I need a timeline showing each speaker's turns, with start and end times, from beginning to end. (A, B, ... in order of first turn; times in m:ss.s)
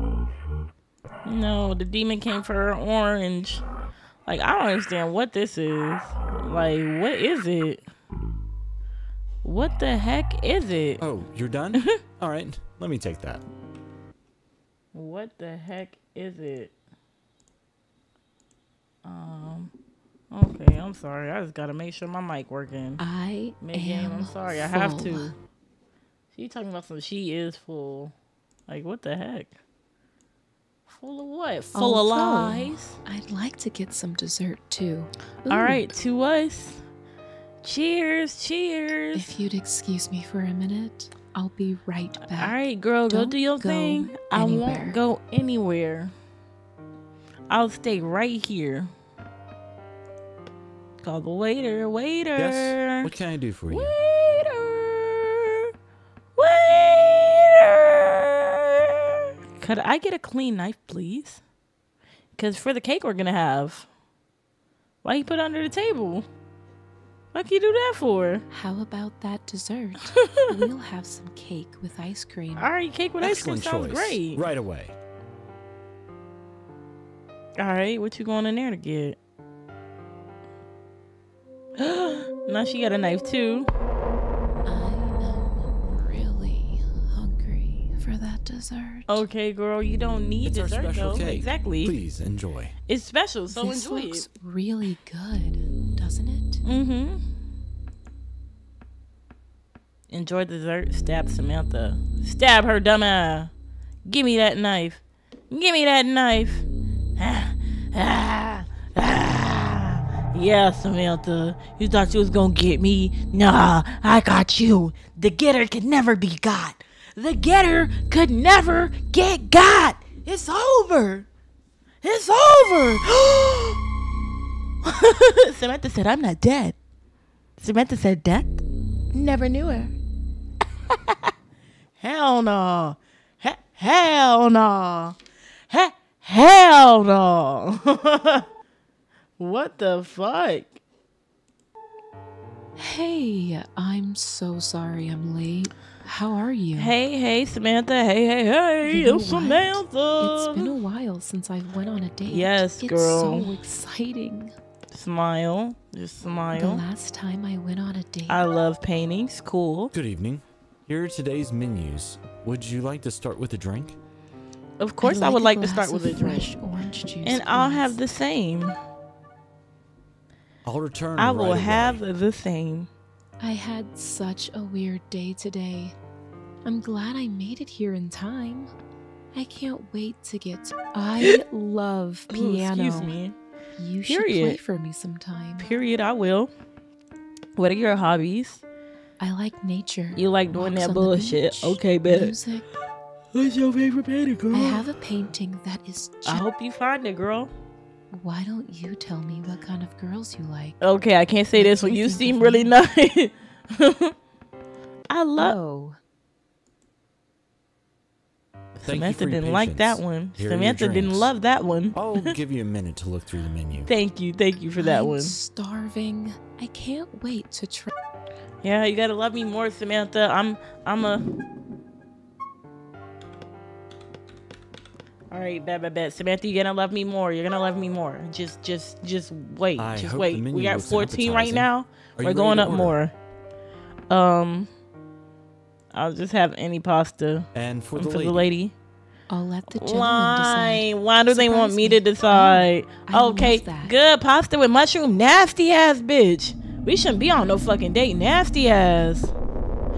0:01.2-0:03.6 A
0:04.2-0:07.8 A
0:09.4-0:11.0 A
0:11.0-0:13.4 B
0:14.9-0:16.7 A
0:19.0-0:19.7 A
0:20.3-0:23.0 A
0:23.0-0:25.3 C
0:23.6-0:25.3 A
0:26.3-0:28.1 A
0:28.7-0:29.5 A
0:30.9-0:33.0 A
0:31.7-0:35.9 C
0:35.5-0:36.8 A
0:37.6-0:39.3 A
0:39.1-0:45.0 C
0:42.3-0:46.1 A
0:47.5-0:48.9 A
0:51.0-0:53.1 A
0:52.4-0:53.9 B
0:53.7-0:55.7 A
0:56.4-0:58.9 A
0:59.6-1:01.4 A
1:02.4-1:03.9 A
1:05.0-1:06.2 A
1:07.3-1:08.4 A
1:08.5-1:12.7 C
1:10.2-1:10.5 A
1:12.6-1:14.4 A
1:13.2-1:15.0 B
1:17.6-1:19.2 A
1:21.8-1:23.7 A
1:24.6-1:29.2 C
1:29.1-1:32.0 A
1:30.4-1:32.7 B
1:32.9-1:34.3 A
1:33.5-1:36.6 C
1:36.6-1:37.2 A
1:40.1-1:43.5 A
1:44.0-1:46.6 A
1:47.2-2:01.3 A
2:02.0-2:03.8 A
2:04.8-2:06.8 A
2:07.6-2:08.6 A
2:09.1-2:09.9 A
2:10.9-2:11.2 A
2:12.0-2:15.2 A
2:15.7-2:18.4 A
2:19.4-2:20.8 A
2:22.8-2:26.9 C
2:26.7-2:30.7 A
2:28.8-2:34.5 C
2:32.3-2:33.5 A
2:34.9-2:36.8 A
2:36.5-2:38.4 C
2:38.3-2:39.9 A
2:39.9-2:44.0 B
2:44.8-2:46.5 A
2:45.0-2:48.0 C
2:47.2-2:48.8 A
2:50.6-2:52.0 B
2:51.2-2:52.9 A
2:53.4-2:56.0 C
2:56.6-2:58.7 C
2:59.3-3:03.2 C
3:02.3-3:03.4 A
3:03.8-3:05.7 C
3:04.0-3:04.6 A
3:05.6-3:06.5 A
3:07.6-3:08.6 A
3:09.2-3:12.6 C
3:10.1-3:12.3 A
3:13.3-3:14.8 A
3:14.5-3:16.4 C
3:16.2-3:17.5 A
3:18.1-3:20.8 C
3:20.8-3:24.1 A
3:21.5-3:22.7 C
3:25.1-3:25.6 A
3:25.4-3:26.0 C
3:28.8-3:32.3 A
3:28.8-3:31.3 B
3:31.9-3:33.9 B
3:33.9-3:35.4 A
3:34.8-3:37.9 C
3:38.6-3:41.2 A
3:45.3-3:53.1 A
3:49.8-3:53.0 B
3:54.1-3:54.7 A
3:55.9-3:58.7 A
3:57.5-3:58.5 B
3:59.3-4:03.9 C
3:59.7-4:09.3 A